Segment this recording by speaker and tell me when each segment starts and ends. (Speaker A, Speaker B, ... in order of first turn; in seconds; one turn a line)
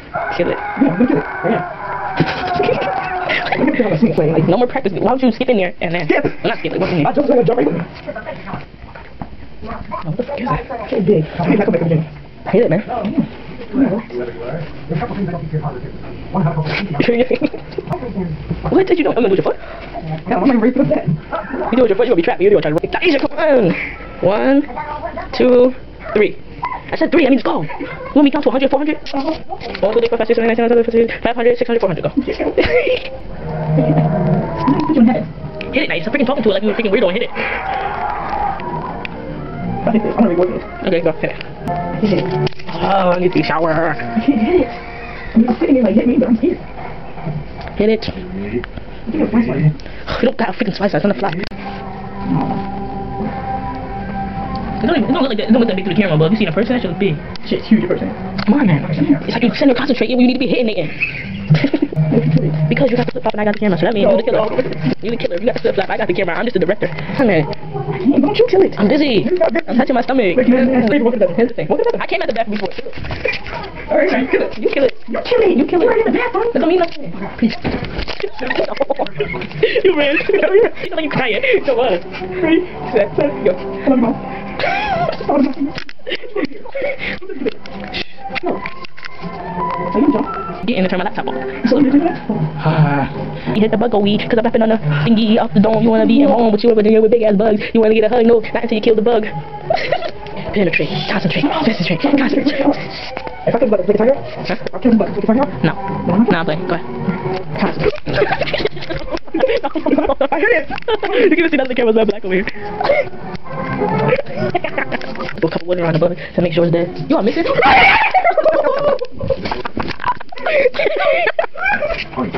Speaker A: 0.3-0.6
Speaker B: 0.8-1.6
Speaker A: 3.5-3.8
Speaker B: 3.5-4.5
Speaker A: 4.4-7.2
Speaker B: 7.0-7.9
Speaker A: 10.1-10.7
Speaker B: 10.7-12.1
Speaker A: 12.5-12.9
Speaker B: 12.7-14.2
Speaker B: 14.9-15.4
Speaker B: 16.4-17.1
Speaker A: 16.8-17.6
Speaker B: 17.9-18.3
Speaker A: 18.7-19.6
Speaker B: 20.1-21.2
Speaker A: 21.6-24.7
Speaker A: 25.3-26.4
Speaker A: 26.9-29.1
Speaker B: 29.1-29.4
Speaker A: 29.8-33.1
Speaker B: 32.2-32.7
Speaker B: 33.8-34.0
Speaker B: 34.6-35.3
Speaker A: 35.7-37.4
Speaker B: 39.9-40.7
Speaker A: 40.8-41.4
Speaker B: 42.0-42.3
Speaker A: 42.7-44.0
Speaker B: 44.1-44.8
Speaker B: 45.3-46.6
Speaker A: 47.8-48.3
Speaker B: 49.1-49.7
Speaker A: 50.1-51.4
Speaker B: 52.3-52.6
Speaker A: 54.8-57.2
Speaker B: 57.4-58.1
Speaker A: 58.5-61.0
Speaker B: 58.8-59.2
Speaker A: 61.5-61.8
Speaker B: 62.1-62.6
Speaker A: 62.6-67.5
Speaker B: 64.0-64.8
Speaker B: 67.9-71.4
Speaker A: 68.8-73.0
Speaker A: 73.9-77.3
Speaker B: 74.0-74.3
Speaker B: 75.1-76.6
Speaker A: 78.2-82.0
Speaker B: 80.3-80.6
Speaker B: 82.4-84.2
Speaker B: 85.0-85.8
Speaker B: 89.9-90.3
Speaker A: 90.6-91.6
Speaker B: 91.6-92.4
Speaker A: 93.5-102.8
Speaker B: 101.5-102.8
Speaker B: 103.5-105.5
Speaker A: 105.6-106.8
Speaker B: 106.0-106.3
Speaker A: 107.6-112.5
Speaker B: 109.9-110.6
Speaker A: 115.4-118.9
Speaker A: 120.4-121.3